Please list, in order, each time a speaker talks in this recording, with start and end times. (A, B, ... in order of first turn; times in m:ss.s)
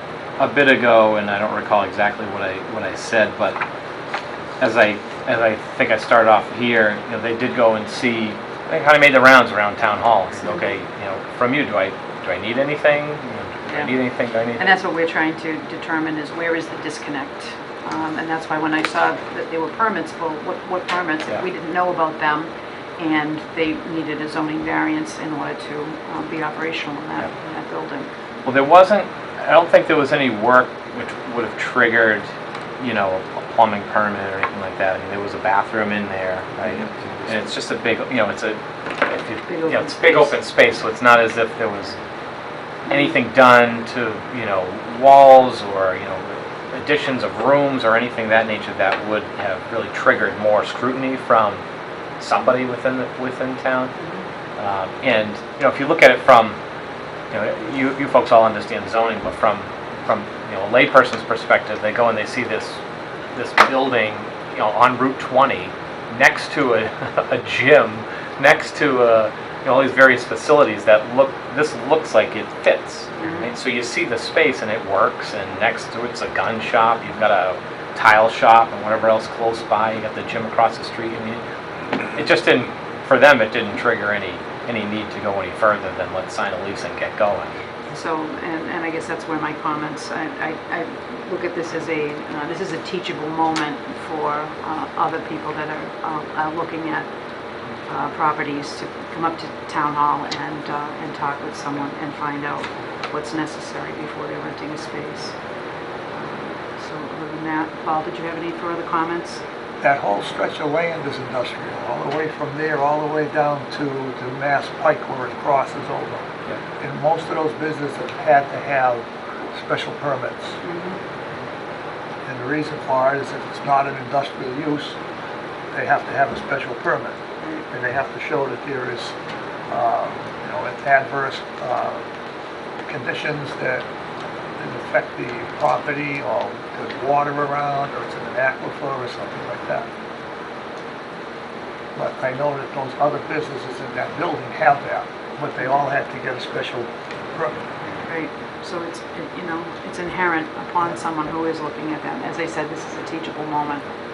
0:00.4-0:03.6 A
0:04.6-0:14.7 A
0:10.4-0:10.7 B
0:13.6-0:14.0 B
0:14.6-0:28.1 B
0:28.4-0:32.3 A
0:32.8-0:42.0 A
0:39.5-0:40.4 B
0:42.9-0:51.6 A
0:52.2-0:53.9 A
0:54.0-0:54.2 B
0:54.6-0:56.6 A
0:57.3-1:02.8 A
1:03.3-1:21.4 A
1:13.2-1:13.5 B
1:22.1-1:27.6 A
1:27.9-1:37.1 B
1:37.8-1:45.4 B
1:46.1-1:49.4 B
1:49.8-2:00.6 C
2:00.6-2:01.0 B
2:02.2-2:05.0 C
2:05.7-2:07.2 C
2:07.7-2:09.1 C
2:09.7-2:12.0 C
2:12.8-2:13.8 C
2:14.6-2:19.9 C
2:22.0-2:27.5 C
2:28.0-2:33.8 B